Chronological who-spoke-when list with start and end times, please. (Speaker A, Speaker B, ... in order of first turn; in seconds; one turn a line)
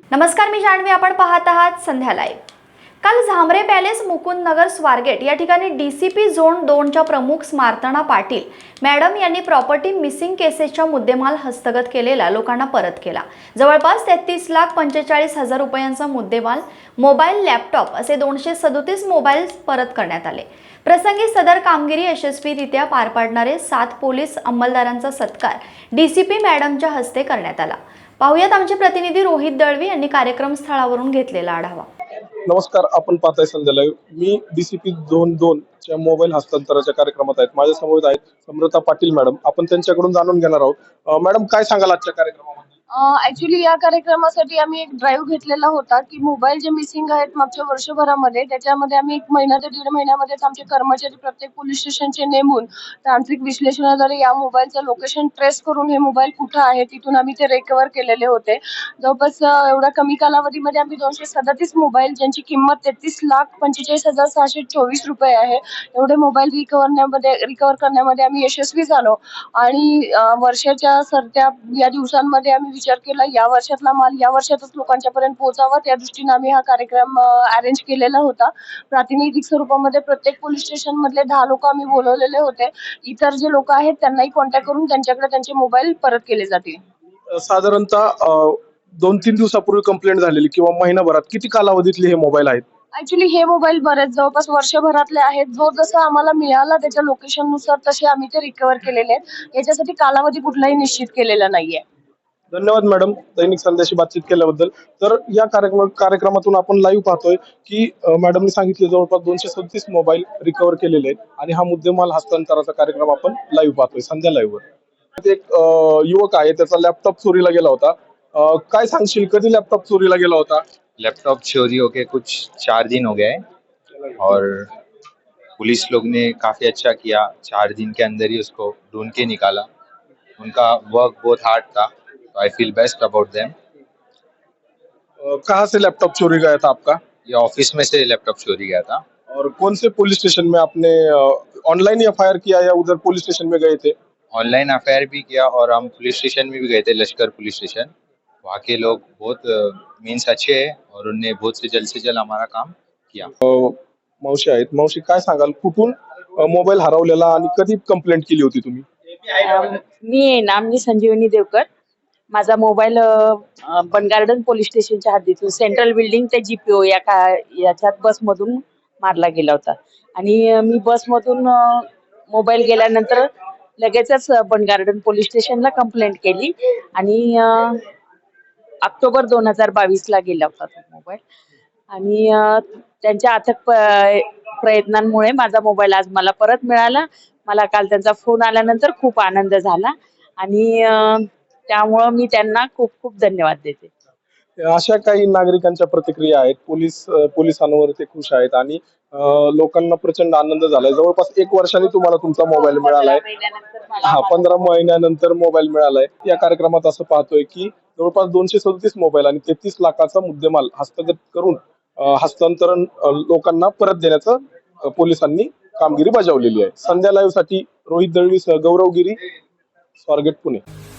Speaker A: 0.1-2.4
Speaker A: 3.0-31.9
Speaker B: 32.5-42.6
Speaker C: 42.9-86.8
Speaker B: 87.3-92.6
Speaker C: 92.9-101.8
Speaker B: 102.5-114.6
Speaker B: 115.2-120.6
Speaker D: 121.0-123.4
Speaker D: 124.2-124.7
Speaker D: 125.6-129.7
Speaker D: 130.4-133.5
Speaker B: 135.2-137.0
Speaker D: 137.2-139.0
Speaker B: 139.3-143.9
Speaker D: 144.3-147.9
Speaker D: 148.4-153.3
Speaker B: 153.4-158.8
Speaker E: 159.4-161.7
Speaker E: 162.3-168.5
Speaker E: 169.0-171.4
Speaker E: 172.3-173.1
Speaker E: 173.8-176.5
Speaker E: 177.0-177.5
Speaker E: 178.8-181.2
Speaker E: 182.0-182.5
Speaker E: 183.0-184.0
Speaker E: 184.6-189.9
Speaker E: 190.4-191.0
Speaker E: 191.7-193.9
Speaker B: 194.6-203.2
Speaker B: 204.0-219.2
Speaker B: 220.0-220.6